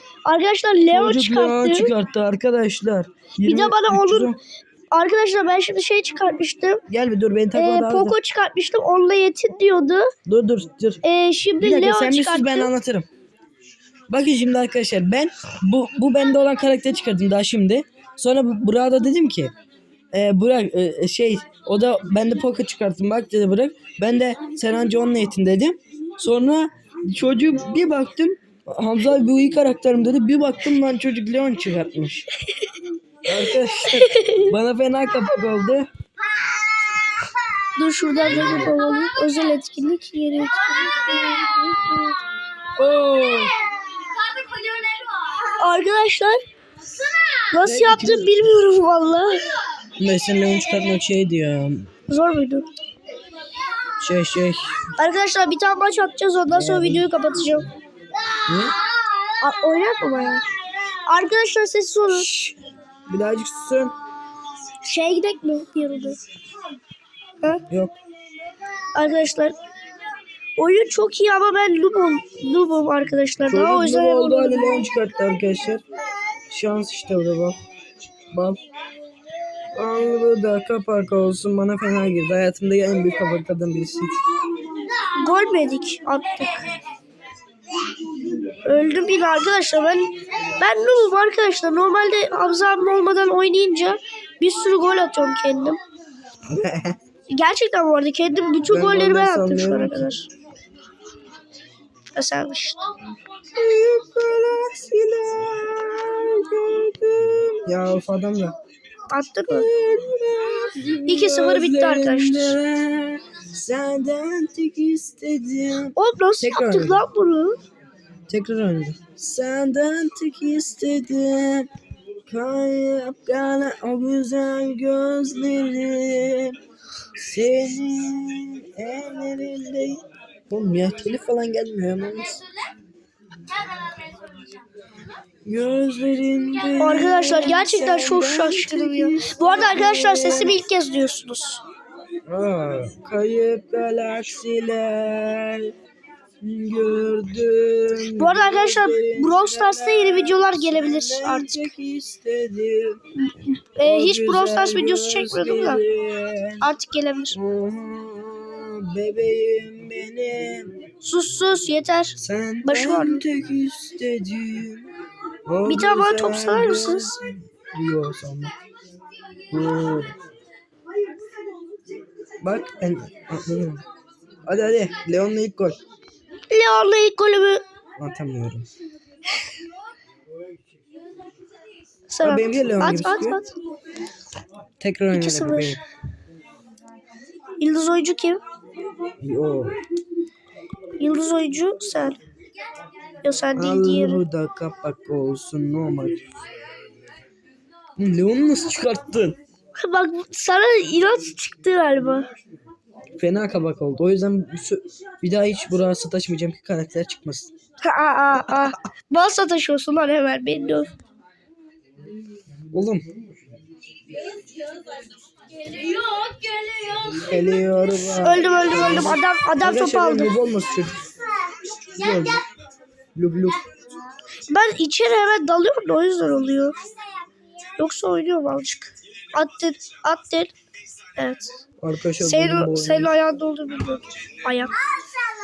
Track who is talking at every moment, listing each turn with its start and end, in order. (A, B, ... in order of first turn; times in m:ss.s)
0:00.3-0:01.9 A
0:00.9-0:04.4 B
0:03.4-0:04.4 A
0:04.9-0:06.8 A
0:06.9-0:08.2 B
0:07.5-0:10.1 A
0:10.3-0:11.0 B
0:11.0-0:12.7 A
0:11.6-0:13.1 B
0:14.1-0:19.5 B
0:20.1-0:32.3 B
0:33.2-0:35.9 B
0:33.9-0:34.5 A
0:37.8-0:42.2 A
0:38.3-0:38.7 B
0:42.8-0:43.6 B
0:44.1-0:45.4 C
0:45.5-0:46.4 A
0:47.5-0:49.4 A
0:47.6-0:48.4 B
0:50.0-0:51.9 B
0:52.1-0:52.7 A
0:54.0-0:54.9 B
0:55.0-0:57.7 A
0:56.5-0:57.1 B
0:58.5-0:58.8 B
0:59.4-1:00.4 A
1:01.1-1:02.3 A
1:02.1-1:02.6 B
1:03.1-1:04.0 B
1:04.8-1:06.2 A
1:07.7-1:08.0 B
1:09.0-1:09.6 A
1:10.6-1:14.9 A
1:13.5-1:15.8 B
1:16.5-1:17.6 B
1:18.3-1:18.6 B
1:19.7-1:24.2 B
1:25.1-1:26.7 A
1:28.6-1:35.8 A
1:36.5-1:37.0 B
1:37.3-1:40.3 A
1:38.7-1:40.1 B
1:42.2-1:42.8 A
1:43.5-1:48.6 B
1:49.1-1:49.7 A
1:49.5-1:57.0 B
1:51.1-1:52.6 A
1:56.0-1:57.6 A
1:58.3-2:01.7 B
2:02.3-2:06.6 B
2:07.2-2:12.4 B
2:15.5-2:20.6 B
2:16.8-2:21.6 A
2:22.3-2:25.7 B
2:26.4-2:33.0 B
2:28.1-2:31.7 A
2:33.2-2:35.8 A
2:33.8-2:36.7 B
2:36.6-2:37.4 A
2:37.3-2:40.7 B
2:41.0-2:43.2 A
2:42.2-2:44.9 B
2:45.5-2:48.5 B
2:45.7-2:47.2 A
2:49.5-2:50.1 B
2:52.4-2:53.8 B
2:54.5-2:55.8 B
2:56.5-2:57.6 A
2:58.0-2:58.7 B
3:02.1-3:03.5 A
3:02.2-3:03.4 B
3:04.8-3:05.8 B
3:05.1-3:05.8 A
3:07.6-3:08.4 A
3:09.2-3:09.8 B
3:11.0-3:12.2 A
3:13.2-3:14.2 A
3:13.6-3:16.2 B
3:18.0-3:19.4 B
3:19.8-3:22.3 A
3:23.2-3:27.5 B
3:27.8-3:30.9 A
3:28.5-3:28.8 B
3:32.7-3:33.0 B
3:34.5-3:37.2 C
3:37.2-3:41.0 B
3:38.1-3:40.3 A
3:41.9-3:42.4 B
3:43.2-3:43.6 B
3:44.5-3:46.8 A
3:47.8-3:50.5 A
3:51.2-3:51.5 A
3:51.8-3:53.1 B
3:52.2-3:54.8 A